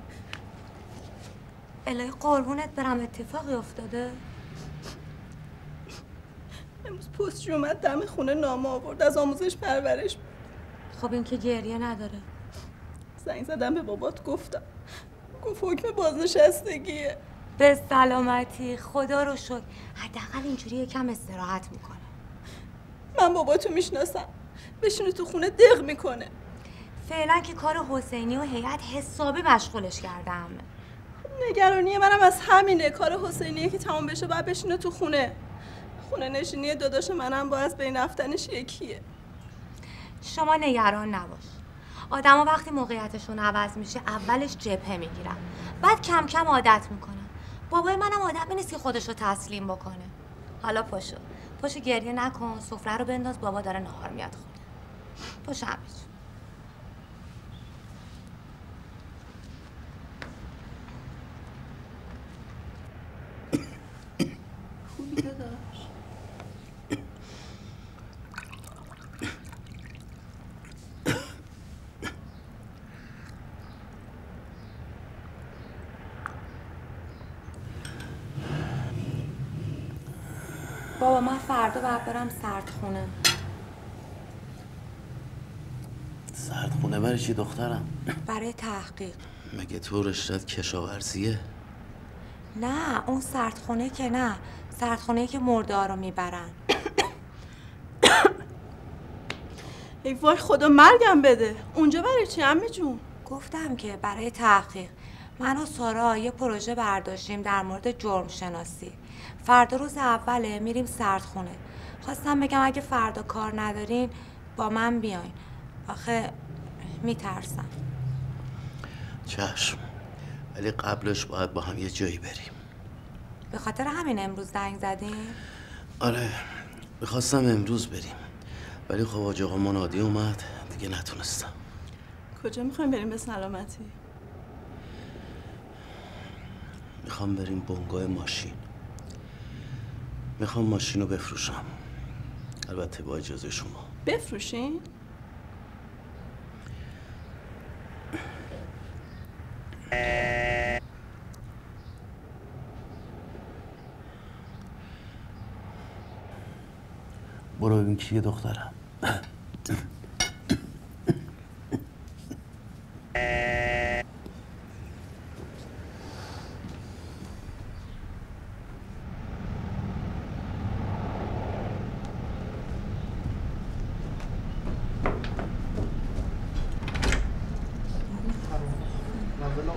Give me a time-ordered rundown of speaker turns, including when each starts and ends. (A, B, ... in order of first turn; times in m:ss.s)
0:01.8-0:04.2 A
0:06.8-0:10.2 B
0:10.9-0:12.3 A
0:13.2-0:14.7 B
0:15.4-0:17.2 B
0:17.6-0:22.1 A
0:23.2-0:24.3 B
0:24.8-0:26.3 B
0:27.0-0:30.7 A
0:31.2-0:35.4 B
0:36.0-0:39.0 B
0:40.2-0:54.6 A
0:55.4-0:56.1 A
1:04.9-1:05.9 B
1:21.0-1:23.2 A
1:26.3-1:27.9 C
1:28.3-1:29.2 A
1:29.5-1:31.4 C
1:32.6-1:36.6 A
1:40.0-1:43.0 B
1:43.3-1:56.4 A
1:57.0-1:57.7 A
1:59.3-1:59.8 C
2:00.5-2:02.6 C
2:03.5-2:05.4 A
2:06.0-2:08.3 C
2:08.9-2:11.5 C
2:12.4-2:13.9 B
2:17.0-2:18.6 C
2:20.4-2:21.8 C
2:22.7-2:23.9 C
2:24.1-2:24.9 B
2:37.6-2:39.2 C
2:58.1-2:58.5 A